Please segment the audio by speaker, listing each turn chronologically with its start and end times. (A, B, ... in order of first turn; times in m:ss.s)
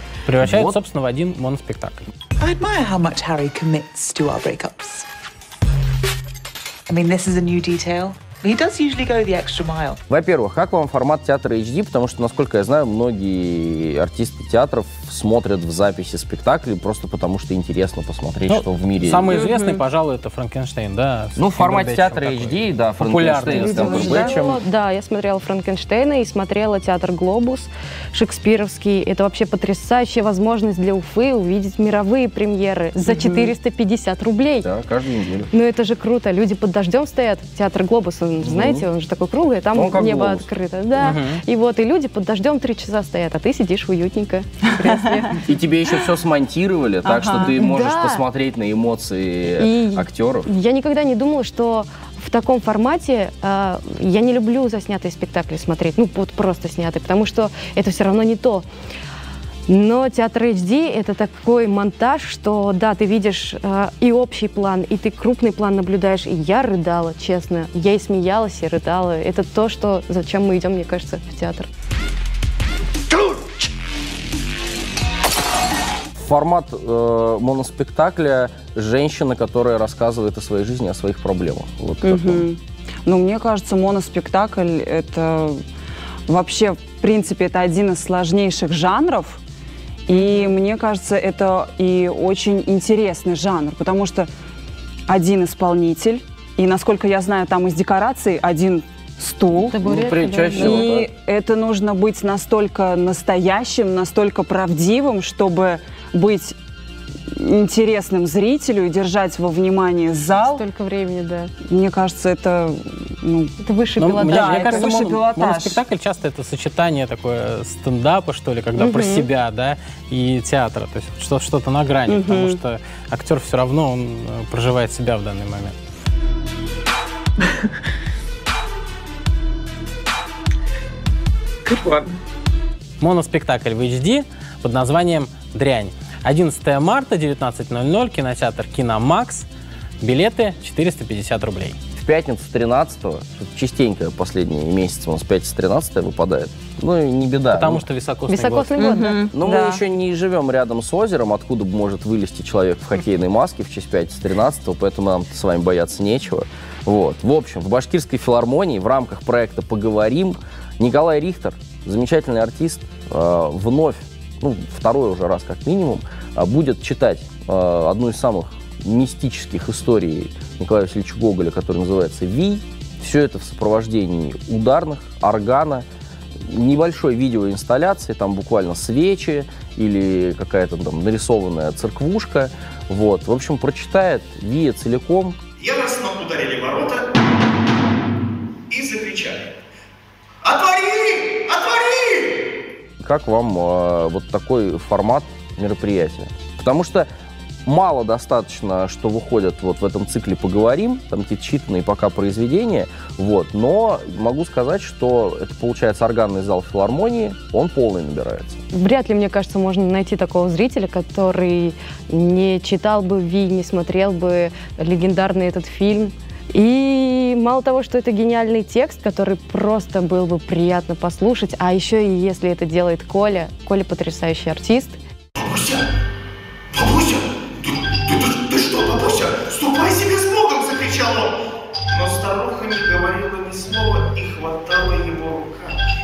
0:00.3-0:02.1 A
0:00.4-0:00.8 B
0:02.4-0:05.1 C
0:06.9-0:10.0 C
0:10.1-0:19.3 B
0:18.5-0:24.2 A
0:19.3-0:19.8 D
0:21.4-0:24.6 B
0:23.5-0:24.4 D
0:23.9-0:34.7 E
0:33.1-0:33.5 D
0:34.6-0:35.5 B
0:35.5-0:45.4 E
0:38.4-0:38.9 B
0:39.7-0:40.5 B
0:41.0-0:41.4 A
0:45.4-0:50.5 B
0:47.0-0:47.6 D
0:47.5-0:48.2 E
0:49.6-0:58.7 E
0:59.7-1:11.7 E
1:16.2-1:22.5 B
1:22.0-1:25.6 D
1:26.3-1:29.4 D
1:30.1-1:34.3 D
1:30.2-1:30.4 E
1:35.1-1:39.8 D
1:39.7-1:40.9 E
1:39.7-1:41.1 B
1:40.6-1:46.6 D
1:47.3-1:50.6 D
1:50.4-1:51.5 E
1:51.7-1:53.5 D
1:53.6-1:54.9 E
1:54.0-2:05.8 A
1:54.2-1:55.8 D
1:58.8-1:59.2 D
2:02.1-2:02.6 D
2:13.0-2:19.5 A
2:20.0-2:21.8 A
2:22.0-2:27.8 B
2:27.5-2:29.1 A
2:28.3-2:29.3 E
2:28.8-2:29.8 D
2:29.3-2:55.9 B
2:56.4-3:05.4 B
3:05.6-3:07.1 F
3:08.7-3:09.4 F
3:10.4-3:12.4 F
3:13.0-3:17.1 B
3:17.6-3:28.6 B
3:28.7-3:45.0 E
3:45.4-3:45.8 F
3:46.7-3:51.3 F
3:51.9-3:55.8 F